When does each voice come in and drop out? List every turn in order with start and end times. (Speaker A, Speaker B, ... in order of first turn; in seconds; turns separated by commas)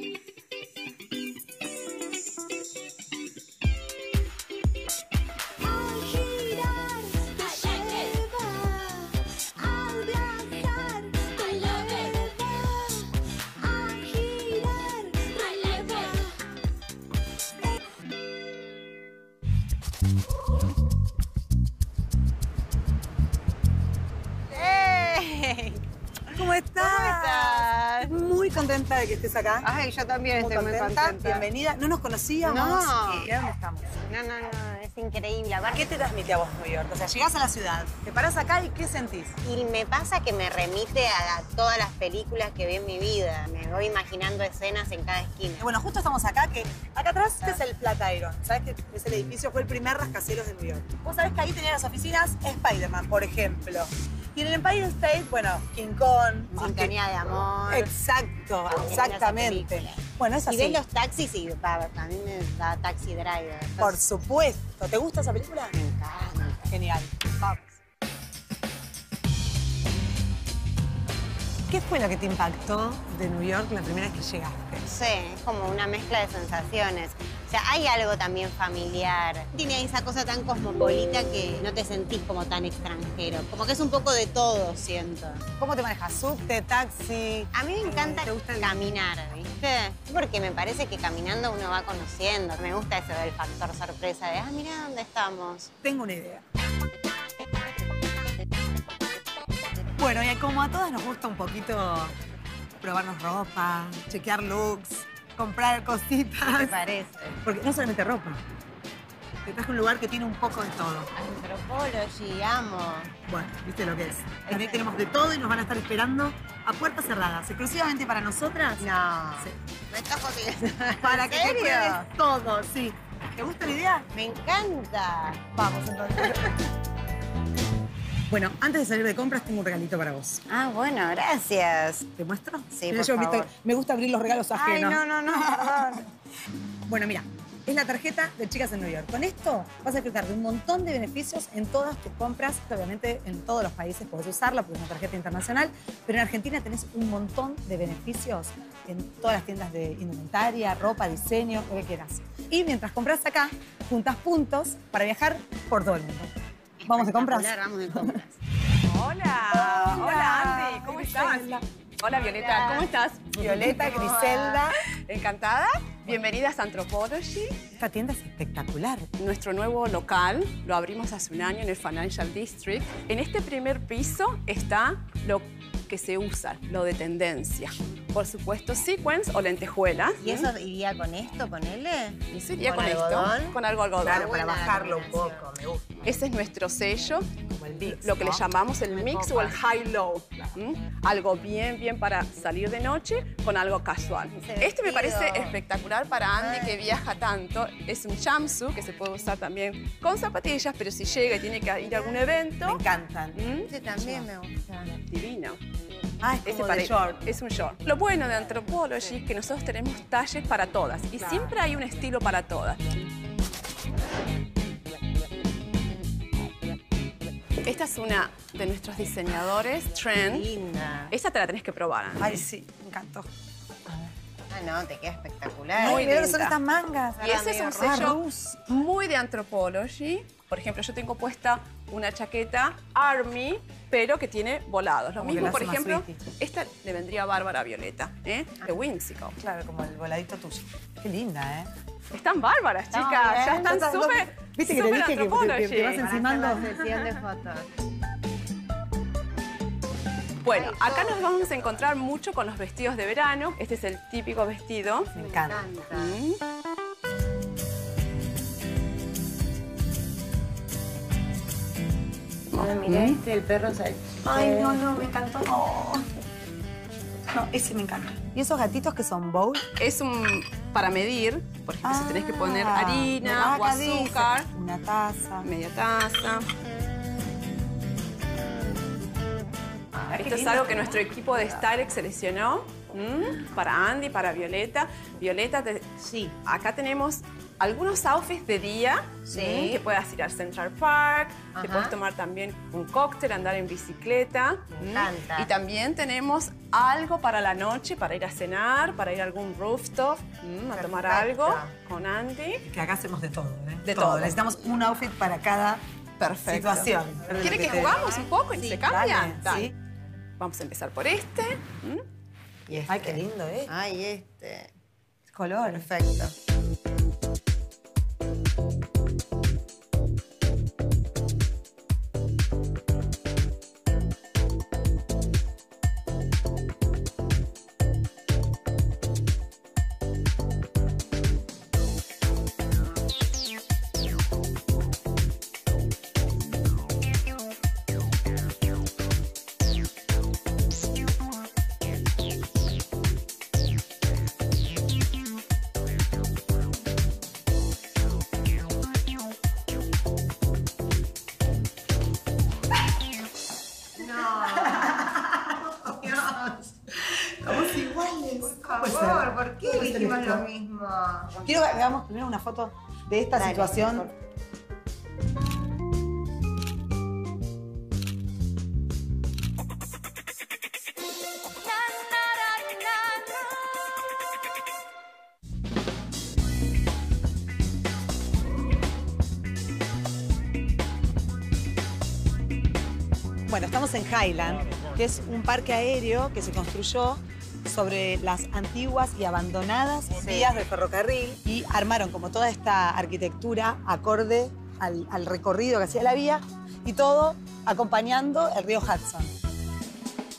Speaker A: 5.6-16.3, Speaker B: 24.5-28.1, Speaker A: 26.3-29.7, Speaker B: 29.6-31.5, Speaker A: 30.4-33.9, Speaker B: 32.4-33.3, Speaker B: 33.9-35.9, Speaker A: 35.7-39.4, Speaker B: 39.4-45.7, Speaker A: 45.6-57.0, Speaker B: 56.5-57.9, Speaker A: 57.7-60.8, Speaker B: 58.7-64.0, Speaker A: 63.8-65.8, Speaker B: 65.7-66.7, Speaker A: 66.7-67.7, Speaker A: 71.7-74.8, Speaker B: 74.8-85.5, Speaker A: 85.6-88.8, Speaker B: 87.5-95.7, Speaker A: 95.8-96.4, Speaker A: 100.0-102.2, Speaker A: 102.8-106.8, Speaker B: 106.4-107.4, Speaker A: 107.4-108.4, Speaker A: 109.4-111.1, Speaker B: 111.1-113.2, Speaker A: 113.2-119.6, Speaker B: 114.5-114.8, Speaker B: 118.8-122.0, Speaker A: 121.0-124.1, Speaker B: 124.1-125.5, Speaker A: 125.5-126.6, Speaker A: 128.3-130.4, Speaker B: 130.5-132.1, Speaker A: 132.2-136.1, Speaker B: 132.7-133.5, Speaker B: 134.6-136.1, Speaker A: 136.9-156.3, Speaker B: 156.8-158.4, Speaker A: 156.9-158.2, Speaker C: 158.8-163.8, Speaker A: 159.5-161.6, Speaker B: 162.4-164.6, Speaker A: 163.4-164.8, Speaker C: 164.9-167.6, Speaker A: 167.8-169.1, Speaker C: 169.2-180.5, Speaker B: 180.2-185.4, Speaker C: 182.3-184.3, Speaker A: 184.0-185.9, Speaker C: 186.0-187.3, Speaker A: 187.5-188.4, Speaker C: 187.8-202.8, Speaker B: 188.9-189.6, Speaker B: 194.3-195.6, Speaker B: 196.4-196.9, Speaker A: 202.6-203.4, Speaker C: 203.4-203.7, Speaker B: 203.6-205.0, Speaker C: 205.0-205.6, Speaker A: 206.2-207.2, Speaker C: 206.4-213.1, Speaker C: 217.6-220.5, Speaker B: 220.2-221.2, Speaker C: 221.1-222.4, Speaker A: 222.2-223.3, Speaker B: 224.5-226.1, Speaker A: 225.8-228.7, Speaker C: 225.8-226.6, Speaker B: 227.2-228.1, Speaker C: 227.2-239.4, Speaker A: 235.2-236.2, Speaker A: 239.4-241.7, Speaker C: 242.1-246.1, Speaker B: 242.9-243.7, Speaker A: 243.3-247.0, Speaker B: 246.0-247.7, Speaker C: 250.4-255.1, Speaker B: 250.5-251.9, Speaker A: 255.2-255.6, Speaker B: 255.2-256.2, Speaker C: 255.9-256.4, Speaker C: 262.5-263.2, Speaker B: 262.5-264.8, Speaker A: 264.2-266.1, Speaker A: 267.3-269.6, Speaker C: 269.8-274.5, Speaker A: 271.8-275.5, Speaker C: 275.4-276.5, Speaker A: 279.9-281.1, Speaker C: 280.1-302.7, Speaker B: 286.1-286.3, Speaker B: 289.3-289.8, Speaker B: 291.5-291.9, Speaker B: 294.8-295.5, Speaker B: 300.9-301.7, Speaker A: 301.2-301.6, Speaker A: 302.6-305.8, Speaker C: 303.9-304.4, Speaker C: 306.2-309.7, Speaker A: 306.4-309.7, Speaker C: 310.4-312.0, Speaker B: 312.7-314.7, Speaker A: 312.9-313.7, Speaker A: 315.3-315.9, Speaker B: 315.6-316.3, Speaker B: 354.0-356.6, Speaker A: 354.4-355.7, Speaker A: 356.9-360.4, Speaker B: 358.4-361.6, Speaker A: 361.4-364.1, Speaker B: 363.4-364.1, Speaker A: 383.5-399.4